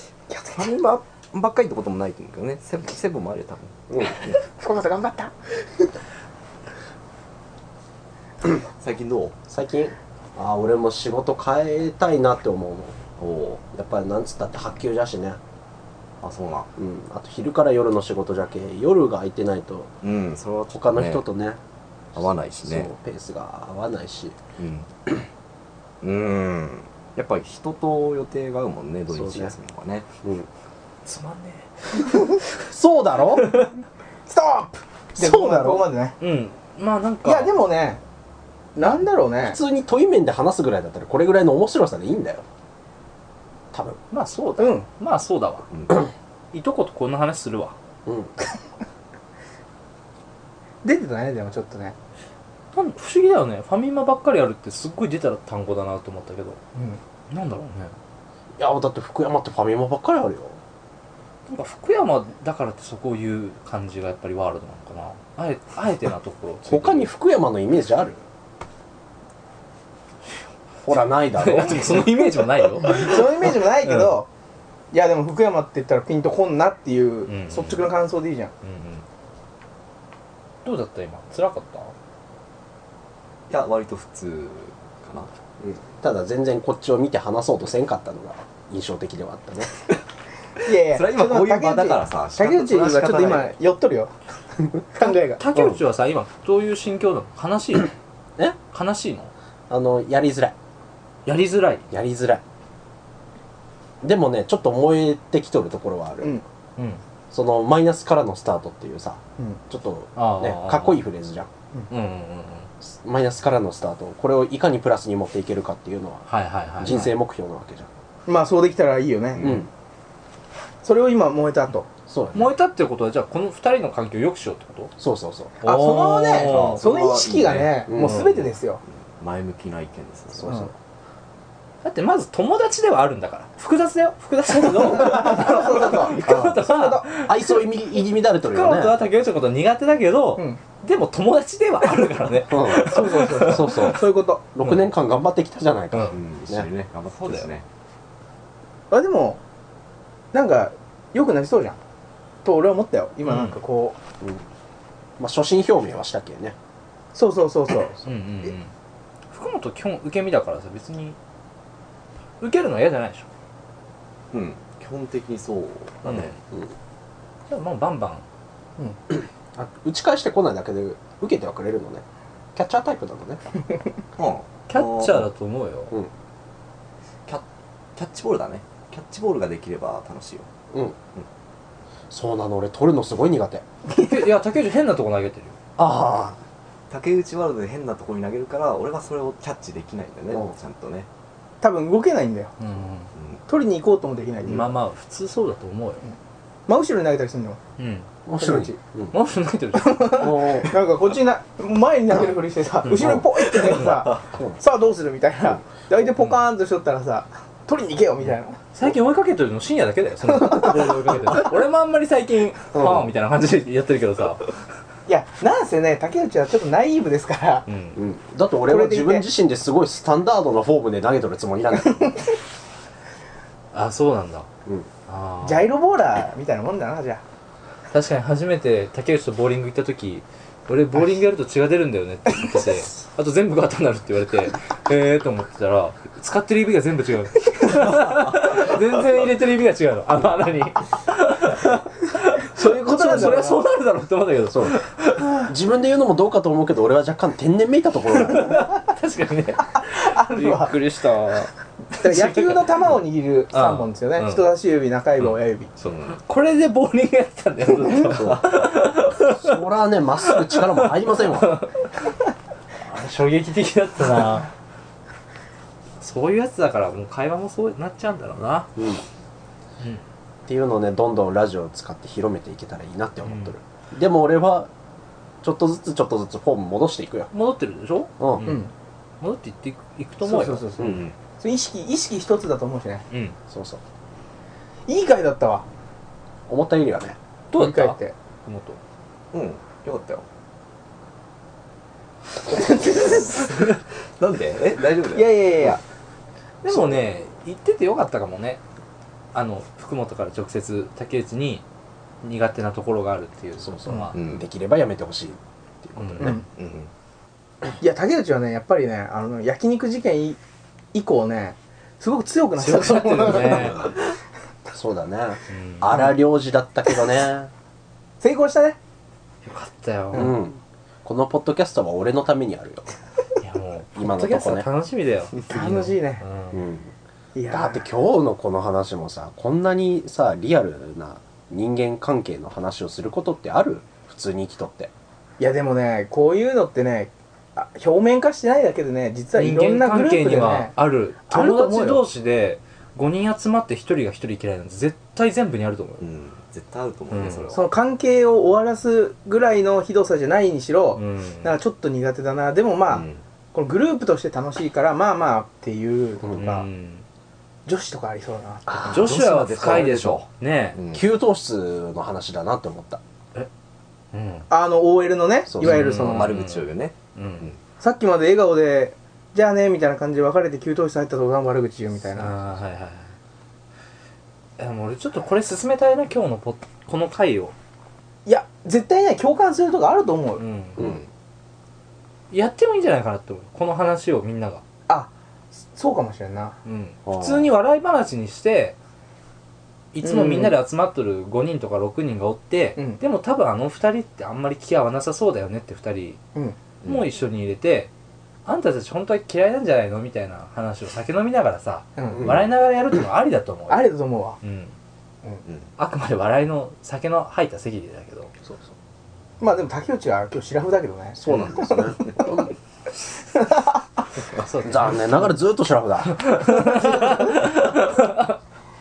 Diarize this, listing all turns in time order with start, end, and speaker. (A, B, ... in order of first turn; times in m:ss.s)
0:00.3-0:00.8 A
0:00.5-0:04.4 B
0:03.9-0:04.2 C
0:04.4-0:05.8 A
0:08.8-0:09.4 B
0:09.5-0:13.0 C
0:13.2-0:13.6 B
0:13.7-0:15.4 C
0:16.2-0:16.7 B
0:16.8-0:19.9 C
0:20.0-0:21.2 B
0:20.7-0:21.6 C
0:22.2-0:22.9 B
0:22.2-0:24.4 C
0:24.6-0:24.9 B
0:26.0-0:30.1 B
0:29.1-0:29.6 C
0:30.2-0:30.5 C
0:31.0-0:32.2 D
0:32.6-0:33.6 C
0:34.3-0:36.2 A
0:35.2-0:35.8 C
0:36.2-0:37.5 D
0:37.2-0:38.0 A
0:38.8-0:39.6 A
0:39.4-0:42.4 C
0:43.7-0:44.0 C
0:44.1-0:45.7 D
0:44.6-0:44.9 A
0:45.7-0:46.0 B
0:46.5-0:47.8 D
0:48.1-0:48.3 C
0:50.8-0:52.0 A
0:52.7-0:56.6 D
0:57.3-0:58.0 D
0:58.6-1:00.6 C
1:01.5-1:07.1 D
1:06.6-1:08.2 C
1:10.8-1:12.3 C
1:11.3-1:13.2 D
1:12.8-1:14.3 A
1:13.8-1:14.2 D
1:14.9-1:18.5 A
1:17.3-1:17.9 D
1:18.6-1:19.0 D
1:20.6-1:21.9 D
1:23.5-1:25.3 B
1:25.6-1:29.7 C
1:30.6-1:34.1 A
1:30.7-1:33.6 B
1:34.9-1:35.4 A
1:35.0-1:37.9 D
1:35.5-1:35.8 C
1:38.7-1:39.3 D
1:39.7-1:40.6 C
1:41.3-1:41.9 D
1:41.9-1:42.4 C
1:44.0-1:46.4 C
1:47.3-1:51.5 C
1:50.2-1:51.1 D
1:51.9-1:52.7 D
1:52.8-1:56.3 C
1:56.3-1:57.1 D
1:56.8-1:57.9 C
1:58.3-1:59.6 A
1:59.4-1:59.7 C
2:00.8-2:01.9 A
2:02.1-2:02.5 C
2:02.3-2:04.9 D
2:05.0-2:05.6 C
2:05.6-2:06.8 D
2:05.6-2:08.8 A
2:06.3-2:08.5 B
2:07.9-2:08.3 C
2:09.2-2:10.5 B
2:10.3-2:10.7 C
2:11.8-2:17.6 D
2:14.8-2:17.1 A
2:16.2-2:16.6 C
2:17.2-2:19.0 C
2:18.4-2:24.0 D
2:22.5-2:26.7 C
2:22.8-2:24.4 A
2:25.9-2:26.2 D
2:26.1-2:27.6 B
2:28.9-2:29.4 A
2:30.3-2:31.8 A
2:32.4-2:34.0 A
2:33.3-2:33.6 D
2:35.2-2:36.6 C
2:37.1-2:38.0 A
2:38.0-2:38.7 D
2:39.3-2:41.2 D
2:42.4-2:43.3 D
2:44.3-2:46.4 B
2:46.0-2:46.3 D
2:47.5-2:48.2 D
2:49.1-2:52.0 C
2:52.6-2:53.4 C
2:54.2-2:55.2 B
2:54.7-2:55.9 D
2:58.0-3:00.5 B
3:00.7-3:01.0 C
3:02.1-3:03.6 C
3:03.9-3:05.6 D
3:05.8-3:06.4 C
3:06.9-3:11.1 B
3:11.6-3:12.5 A
3:12.6-3:13.1 D
3:13.2-3:13.4 B
3:13.5-3:14.7 A
3:14.4-3:16.0 D
3:16.7-3:17.6 A
3:17.8-3:18.1 D
3:18.2-3:19.2 C
3:19.1-3:20.4 D
3:19.8-3:28.6 A
3:20.1-3:20.8 C
3:22.8-3:23.2 D
3:22.9-3:23.3 C
3:24.3-3:24.6 C
3:26.0-3:26.4 D
3:28.7-3:34.5 D
3:30.3-3:31.0 A
3:32.7-3:33.1 C
3:35.1-3:37.7 A
3:37.7-3:38.0 D
3:38.0-3:42.2 C
3:38.6-3:39.3 A
3:43.7-3:44.5 D
3:45.1-3:45.7 D
3:45.4-3:47.2 A
3:47.9-4:05.5 D
4:02.5-4:03.6 A
4:04.5-4:04.8 C
4:05.4-4:08.7 C
4:08.2-4:12.6 D
4:09.9-4:10.8 A
4:12.0-4:15.7 A
4:13.5-4:14.4 D
4:15.2-4:16.2 B
4:16.1-4:19.6 D
4:18.0-4:18.4 C
4:19.2-4:21.6 C
4:20.3-4:21.9 D
4:22.8-4:24.5 D
4:26.0-4:28.8 D
4:28.8-4:29.0 C
4:30.5-4:34.7 C
4:33.3-4:33.5 D
4:35.4-4:37.3 C
4:37.3-4:38.6 D
4:38.2-4:38.5 C
4:38.4-4:38.7 A
4:39.2-4:40.7 D
4:40.2-4:43.0 A
4:40.8-4:41.0 C
4:40.8-4:41.1 B
4:43.1-4:43.4 D
4:43.5-4:43.8 C
4:44.9-4:45.7 A
4:46.5-4:47.2 C
4:47.5-4:48.8 D
4:47.5-4:48.2 A
4:49.3-4:50.2 B
4:52.5-4:53.5 A
4:53.4-4:55.8 B
4:55.1-4:55.8 A
4:56.6-4:58.6 D
4:56.7-4:57.0 C
4:59.3-5:01.6 D
5:02.2-5:04.2 D
5:03.6-5:06.4 C
5:04.1-5:04.4 B
5:06.0-5:06.4 D
5:06.2-5:06.9 B
5:07.8-5:10.4 A
5:10.9-5:13.9 A
5:12.6-5:13.9 D
5:13.4-5:13.7 C
5:14.7-5:17.5 C
5:15.5-5:16.1 D
5:18.2-5:18.8 A
5:19.4-5:20.4 D
5:20.1-5:22.9 C
5:23.4-5:26.6 D
5:24.0-5:24.7 C
5:25.5-5:26.3 A
5:26.5-5:26.9 C
5:27.4-5:27.8 A
5:27.5-5:34.9 C
5:35.4-5:40.7 A
5:39.4-5:46.1 D
5:41.3-5:42.0 A
5:46.0-5:47.6 B
5:47.1-5:47.6 D
5:47.5-5:56.7 A
5:51.0-5:51.5 D
5:52.9-5:53.2 B
5:56.3-5:57.0 D
5:57.7-5:59.0 A
5:58.7-6:01.0 B
5:58.8-6:00.8 D
6:00.9-6:03.0 C
6:04.1-6:04.5 D
6:04.5-6:06.4 A
6:05.5-6:05.8 C
6:05.6-6:07.5 D
6:05.6-6:07.6 B
6:07.8-6:12.3 A
6:12.1-6:13.1 D
6:14.6-6:17.5 D
6:18.3-6:20.4 A
6:20.4-6:21.0 D
6:22.3-6:24.6 D
6:25.7-6:26.6 A
6:26.6-6:28.8 D
6:27.1-6:27.5 C
6:29.9-6:36.2 D
6:30.0-6:30.6 A
6:36.8-6:37.9 D
6:38.5-6:44.7 D
6:42.0-6:42.3 A
6:43.7-6:44.4 A
6:45.8-6:48.3 D
6:49.4-6:52.3 A
6:51.2-6:52.5 C
6:53.4-6:53.8 A
6:54.4-6:55.2 D
6:54.6-6:56.7 C
6:56.0-6:58.3 D